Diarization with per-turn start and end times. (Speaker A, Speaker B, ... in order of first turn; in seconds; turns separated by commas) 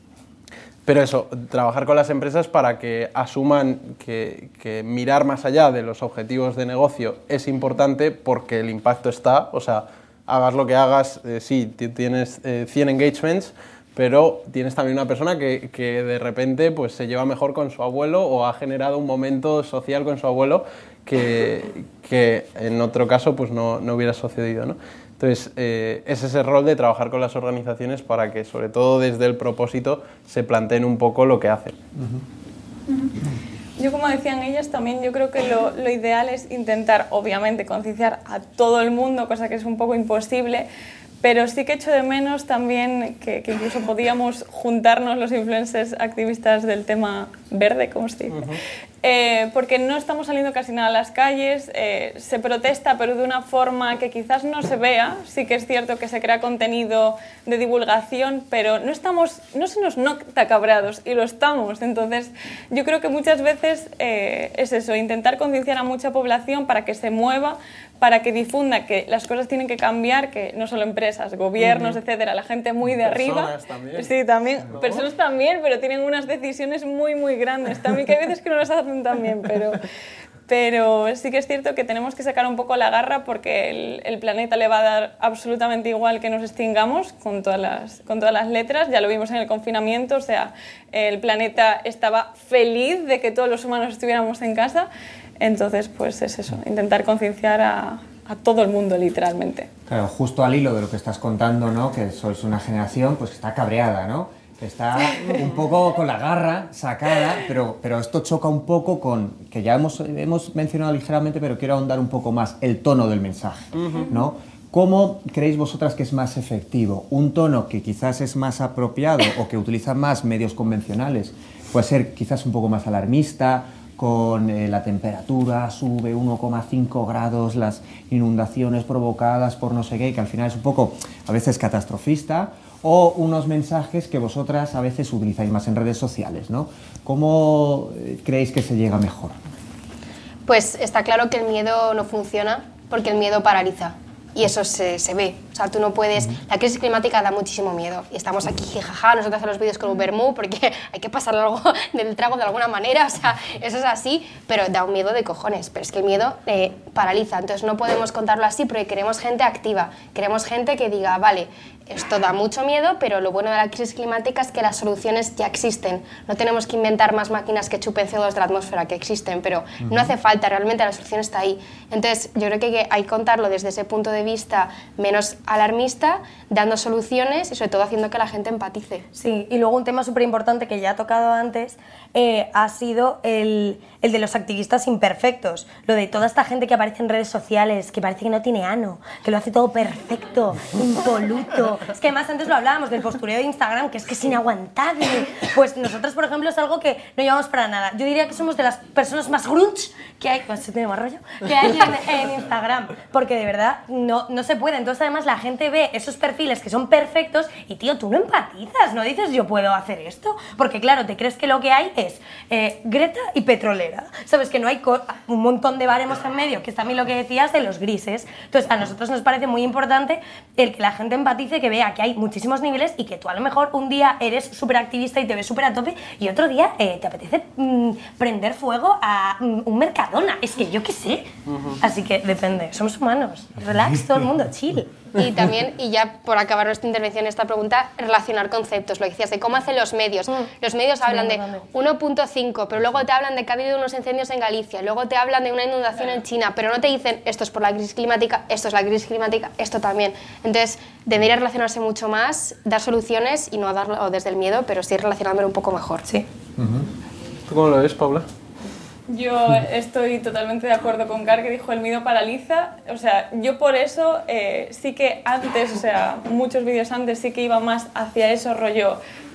Speaker A: 0.8-31.8, Speaker B: 31.9-32.2, Speaker C: 33.8-40.7, Speaker C: 41.2-48.4, Speaker A: 48.3-48.6, Speaker C: 49.0-79.8, Speaker A: 71.6-72.0, Speaker A: 72.9-74.1, Speaker A: 74.6-75.1, Speaker C: 80.5-94.9, Speaker C: 95.4-99.7, Speaker B: 99.9-139.4, Speaker A: 113.7-114.1, Speaker D: 140.4-179.1, Speaker B: 169.8-170.1, Speaker E: 179.1-231.3, Speaker A: 231.5-231.8, Speaker E: 231.8-235.1, Speaker D: 235.1-256.0, Speaker E: 241.0-241.6, Speaker B: 256.6-256.9, Speaker A: 257.5-258.3, Speaker C: 259.1-269.0